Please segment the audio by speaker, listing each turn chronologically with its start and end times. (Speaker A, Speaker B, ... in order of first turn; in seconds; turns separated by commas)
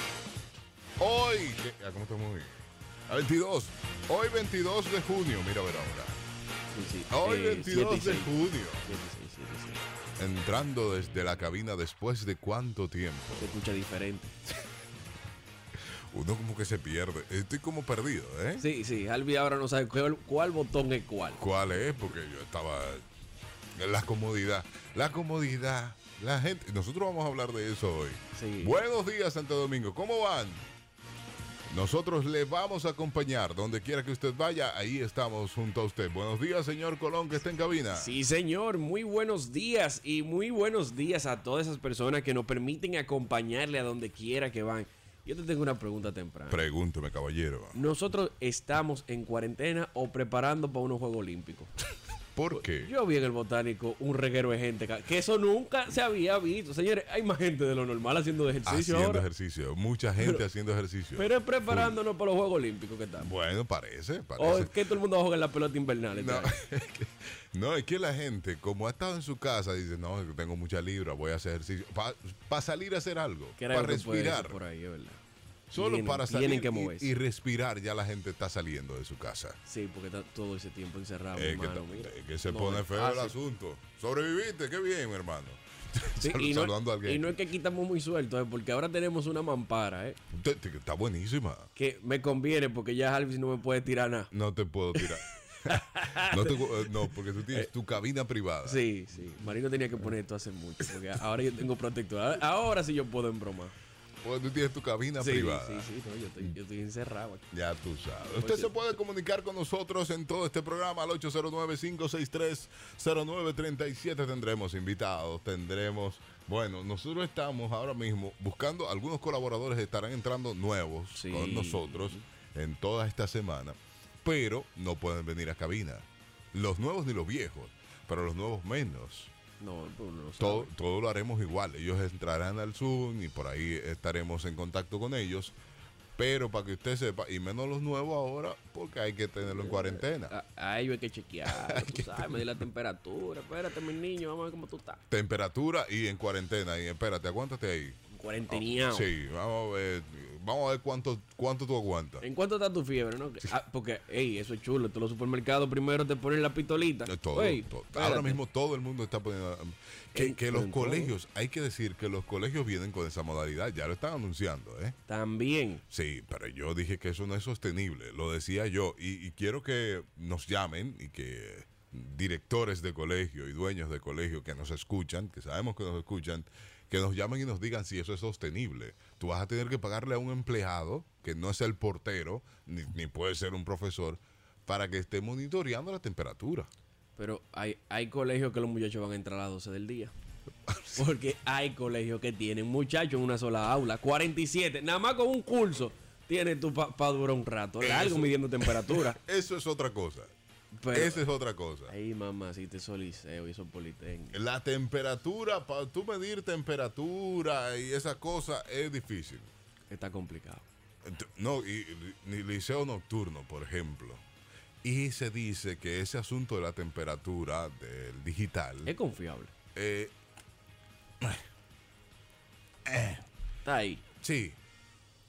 Speaker A: 1.0-6.2, Speaker B: 6.7-9.8, Speaker A: 7.1-8.9, Speaker A: 10.2-13.5, Speaker B: 13.4-14.3, Speaker A: 16.1-18.6, Speaker B: 18.6-21.4, Speaker A: 21.4-23.1, Speaker A: 23.8-30.6, Speaker B: 28.4-28.8, Speaker A: 31.7-38.1, Speaker B: 38.0-46.6, Speaker A: 46.5-47.8, Speaker B: 47.7-51.7, Speaker A: 52.4-52.9, Speaker B: 52.5-59.2, Speaker A: 58.7-62.0, Speaker B: 61.2-63.3, Speaker A: 63.2-64.7, Speaker B: 64.4-66.5, Speaker A: 66.2-74.6, Speaker B: 73.6-75.2, Speaker A: 75.7-79.6, Speaker B: 75.7-77.1, Speaker B: 79.7-83.4, Speaker A: 81.3-87.3, Speaker B: 86.2-90.2, Speaker A: 90.3-91.7, Speaker B: 91.8-94.3, Speaker A: 94.3-98.8, Speaker B: 95.7-96.6, Speaker B: 98.7-103.8, Speaker A: 104.2-105.9, Speaker B: 105.2-107.5, Speaker A: 107.5-129.3, Speaker B: 108.3-108.7, Speaker B: 121.2-122.2, Speaker B: 129.6-130.7, Speaker A: 130.4-135.5, Speaker A: 136.2-140.3, Speaker B: 139.4-145.0, Speaker A: 141.6-142.2, Speaker A: 145.1-148.0, Speaker B: 148.1-149.1, Speaker A: 148.5-152.2, Speaker B: 152.2-158.4, Speaker A: 157.1-165.0, Speaker B: 160.2-161.1, Speaker B: 165.1-165.8, Speaker A: 165.9-186.7, Speaker B: 187.2-190.1, Speaker A: 190.7-191.0, Speaker B: 191.0-199.2, Speaker A: 197.8-200.3, Speaker B: 200.7-201.2, Speaker A: 200.9-201.9, Speaker B: 201.9-204.4, Speaker A: 204.3-209.5, Speaker B: 209.9-210.7, Speaker A: 211.1-214.2, Speaker A: 214.8-218.9, Speaker B: 218.9-219.5, Speaker A: 219.8-220.1, Speaker A: 222.9-223.2, Speaker B: 223.7-224.0, Speaker A: 224.2-224.6